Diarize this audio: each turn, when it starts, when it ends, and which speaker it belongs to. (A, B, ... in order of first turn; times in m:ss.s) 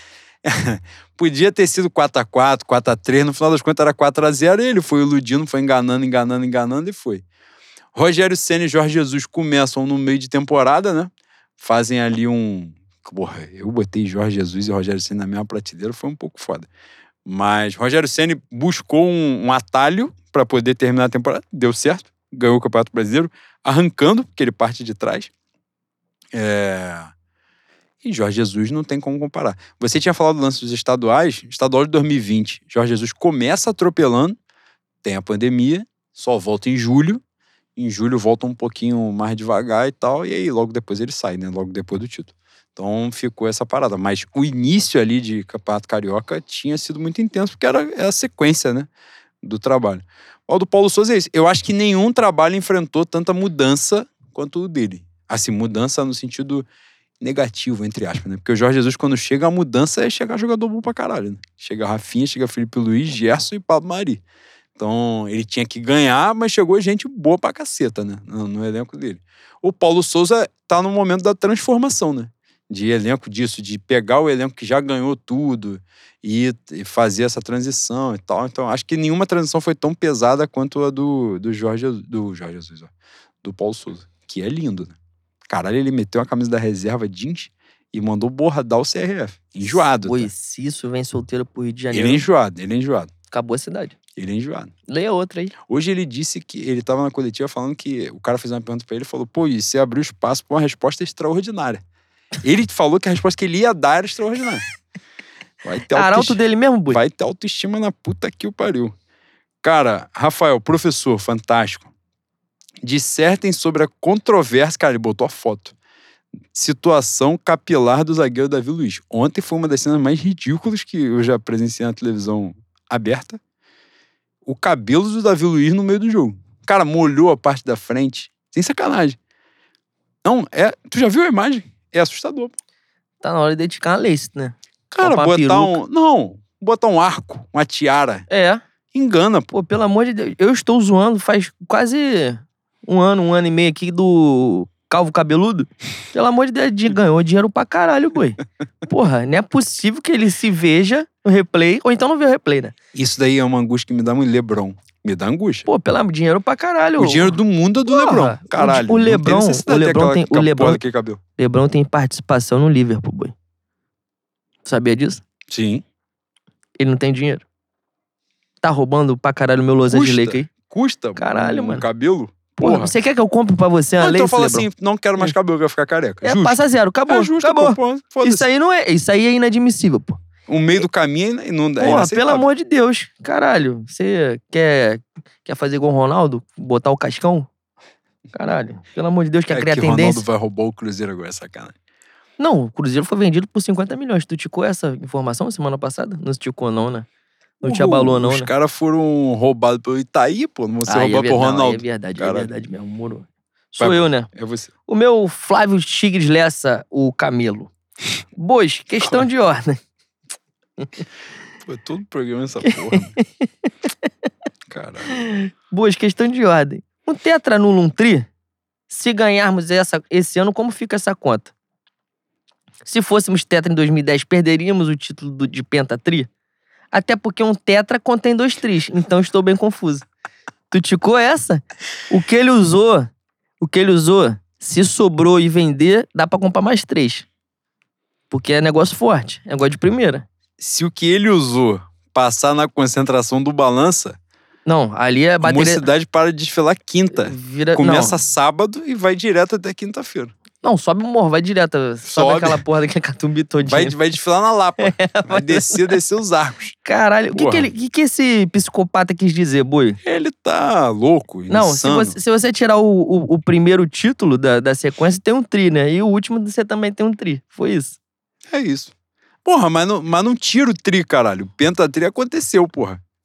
0:00.4-0:07.2 A
0:07.9-0:16.7 A
0:17.2-0:25.3 A
0:26.3-0:27.1 A
0:28.0-0:34.4 A
0:35.0-0:37.2 A
0:37.8-0:48.9 A
0:49.4-0:56.6 A
0:57.2-1:04.2 A
1:04.8-1:22.9 A
1:23.4-1:25.0 A
1:25.5-1:30.3 A
1:29.6-1:32.2 B
1:31.9-1:33.1 A
1:33.3-1:34.0 B
1:34.2-1:34.7 A
1:34.9-1:35.5 B
1:35.6-1:41.8 A
1:42.4-1:44.6 A
1:45.6-1:48.9 A
1:45.9-1:47.0 B
1:49.6-1:51.9 A
1:52.8-1:55.7 A
1:56.5-2:03.4 A
2:04.4-2:09.2 A
2:10.2-2:12.5 A
2:13.2-2:15.8 B
2:14.9-2:18.3 A
2:18.3-2:18.6 B
2:18.9-2:19.5 A
2:19.5-2:32.7 B
2:32.9-2:35.7 A
2:35.7-2:40.8 B
2:37.0-2:41.2 A
2:41.4-2:43.3 B
2:44.6-2:45.2 B
2:45.5-2:45.8 A
2:46.8-2:47.4 B
2:48.6-2:50.5 B
2:49.9-2:52.9 A
2:51.2-2:51.8 B
2:52.6-2:54.7 B
2:54.0-2:58.4 A
2:56.2-3:00.2 B
3:00.5-3:02.5 A
3:01.8-3:07.5 B
3:08.3-3:10.2 B
3:09.5-3:11.7 A
3:12.4-3:17.1 B
3:17.6-3:18.5 B
3:17.6-3:22.5 A
3:20.9-3:24.3 B
3:23.8-3:24.7 A
3:24.9-3:27.7 B
3:28.4-3:29.8 B
3:30.8-3:31.0 B
3:31.6-3:33.1 A
3:32.6-3:33.5 B
3:34.7-3:35.2 A
3:35.1-3:38.3 B
3:38.9-3:41.5 B
3:42.8-3:46.3 B
3:46.9-3:50.1 B
3:50.7-3:53.1 B
3:53.6-3:57.2 B
3:58.3-4:00.2 B
4:00.6-4:04.2 A
4:04.6-4:05.9 B
4:05.4-4:10.3 A
4:07.2-4:08.2 B
4:10.6-4:13.9 B
4:12.0-4:12.6 A
4:13.6-4:16.8 A
4:14.8-4:15.9 B
4:16.8-4:20.0 B
4:17.3-4:17.7 A
4:20.0-4:22.2 A
4:21.5-4:28.0 B
4:28.5-4:28.9 A
4:29.4-4:33.0 A